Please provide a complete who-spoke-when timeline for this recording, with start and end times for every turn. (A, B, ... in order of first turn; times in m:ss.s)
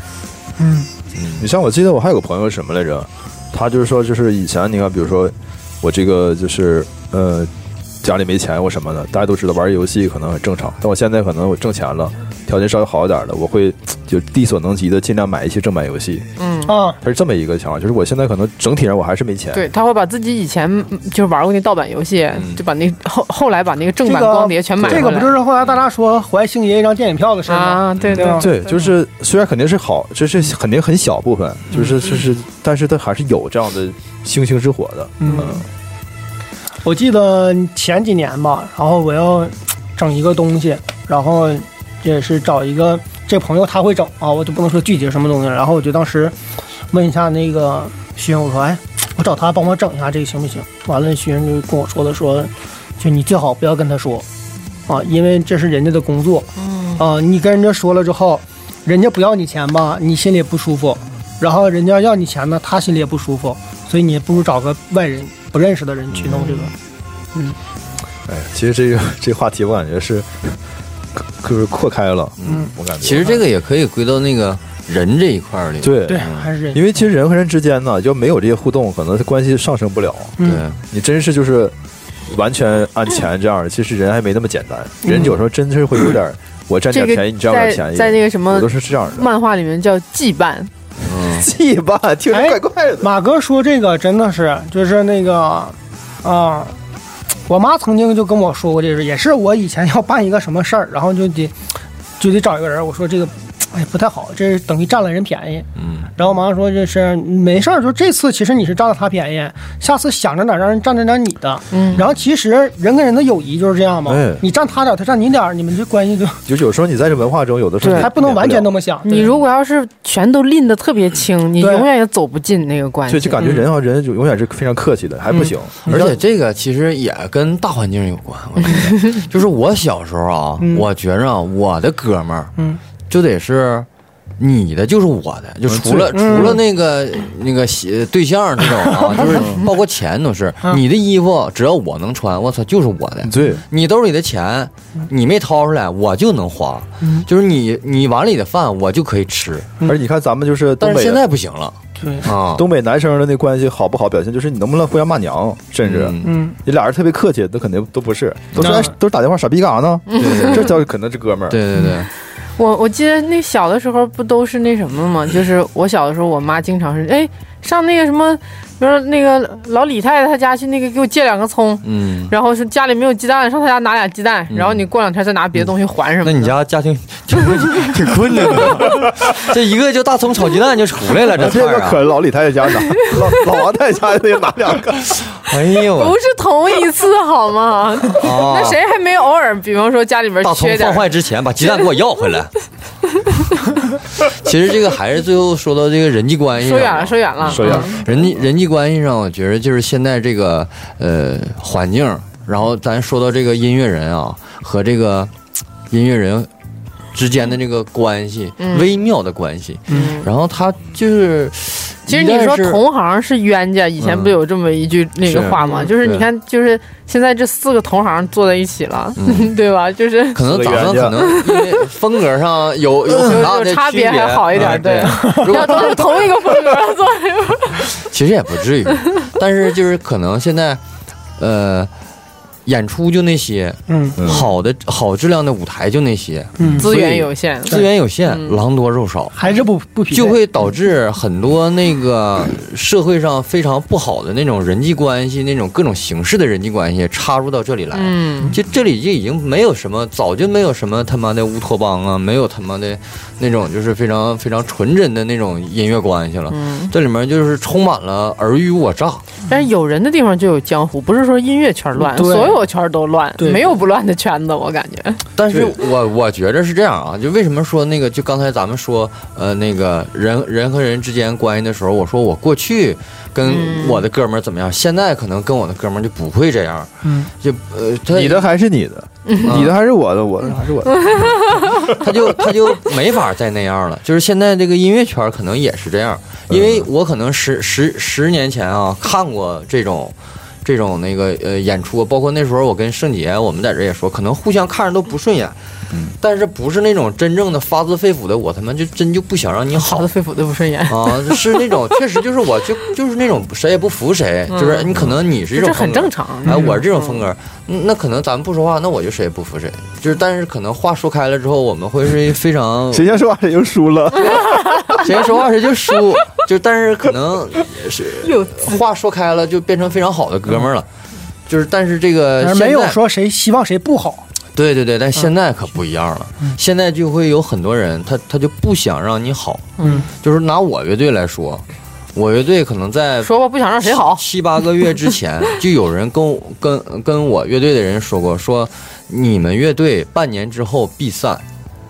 0:00.6-0:00.9 A
0:01.2-0:01.5 B
0:01.4-0:07.5 C
0:08.0-0:16.3 C
0:16.4-0:16.7 D
0:16.7-0:17.0 A
0:17.0-0:19.7 C
0:19.5-0:25.4 D
0:22.3-0:22.6 B
0:24.0-0:28.8 A
0:27.5-0:28.6 D
0:28.0-0:28.4 B
0:28.4-0:35.6 C
0:35.2-0:35.6 A
0:36.8-0:46.4 A
0:46.9-0:54.2 A
0:54.9-1:06.8 A
0:56.6-0:57.0 D
1:06.1-1:06.6 B
1:08.2-1:10.6 C
1:11.2-1:13.4 C
1:12.4-1:16.5 B
1:15.8-1:21.8 C
1:16.1-1:16.8 A
1:20.4-1:20.8 B
1:22.3-1:29.3 C
1:25.0-1:25.4 A
1:26.9-1:30.7 D
1:31.0-1:31.5 B
1:31.2-1:33.1 C
1:32.3-1:36.8 A
1:37.5-1:41.6 A
1:42.2-1:56.4 A
1:45.8-1:46.1 B
1:51.7-1:52.0 D
1:54.1-1:54.4 C
1:56.5-1:58.7 C
1:57.8-1:58.1 D
1:57.9-1:59.4 A
1:59.1-2:03.5 D
2:01.6-2:01.9 A
2:03.1-2:06.2 C
2:03.4-2:03.6 A
2:05.8-2:12.6 B
2:10.6-2:10.9 A
2:13.1-2:13.9 B
2:14.4-2:29.7 B
2:15.7-2:16.6 C
2:16.1-2:16.6 A
2:19.0-2:19.5 A
2:19.3-2:19.6 C
2:23.2-2:23.6 C
2:29.8-2:31.2 C
2:30.8-2:32.6 B
2:32.0-2:32.3 A
2:32.5-2:41.6 C
2:35.8-2:36.4 B
2:36.2-2:36.6 A
2:38.5-2:38.8 B
2:38.6-2:38.9 A
2:40.2-2:40.6 D
2:40.2-2:40.7 B
2:41.5-2:42.1 B
2:42.6-2:56.5 D
2:51.8-2:52.3 B
2:54.5-2:54.9 B
2:56.2-3:02.0 B
3:01.4-3:05.2 C
3:05.3-3:06.2 B
3:06.0-3:11.1 D
3:08.2-3:08.8 B
3:10.4-3:12.5 B
3:14.1-3:25.3 B
3:16.6-3:18.0 D
3:17.4-3:18.3 C
3:25.9-3:26.5 B
3:27.1-3:32.8 B
3:28.6-3:28.9 D
3:29.9-3:30.3 D
3:29.9-3:30.2 A
3:32.1-3:40.4 D
3:34.0-3:34.4 B
3:35.3-3:36.3 B
3:35.3-3:35.6 C
3:39.2-3:39.5 B
3:40.3-3:46.3 B
3:40.4-3:41.2 C
3:41.2-3:41.8 D
3:43.1-3:47.9 D
3:45.0-3:45.7 A
3:47.8-3:50.8 B
3:51.4-3:51.9 B
3:52.6-3:59.4 B
3:53.9-3:54.3 A
3:54.2-3:54.5 C
3:56.6-3:56.9 A
3:56.8-3:58.6 D
3:59.4-4:00.4 A
4:00.1-4:19.2 B
4:07.9-4:08.6 D
4:16.5-4:16.9 D
4:19.5-4:25.2 D
4:22.0-4:22.6 A
4:23.4-4:23.7 A
4:25.4-4:38.5 B
4:33.4-4:34.0 D
4:37.0-4:37.3 A
4:38.1-4:42.0 C
4:39.4-4:39.8 B
4:41.8-4:55.6 B
4:46.5-4:46.9 C
4:56.2-5:00.1 B
4:59.8-5:01.7 D
5:00.9-5:13.1 B
5:04.5-5:04.9 D
5:05.5-5:07.2 D
5:12.9-5:14.9 C
5:14.8-5:15.0 D
5:14.9-5:20.9 B
5:18.2-5:18.8 D
5:21.5-5:23.0 B
5:22.4-5:24.2 A
5:24.6-5:41.4 B
5:29.8-5:30.1 D
5:29.8-5:30.1 A
5:33.2-5:34.2 D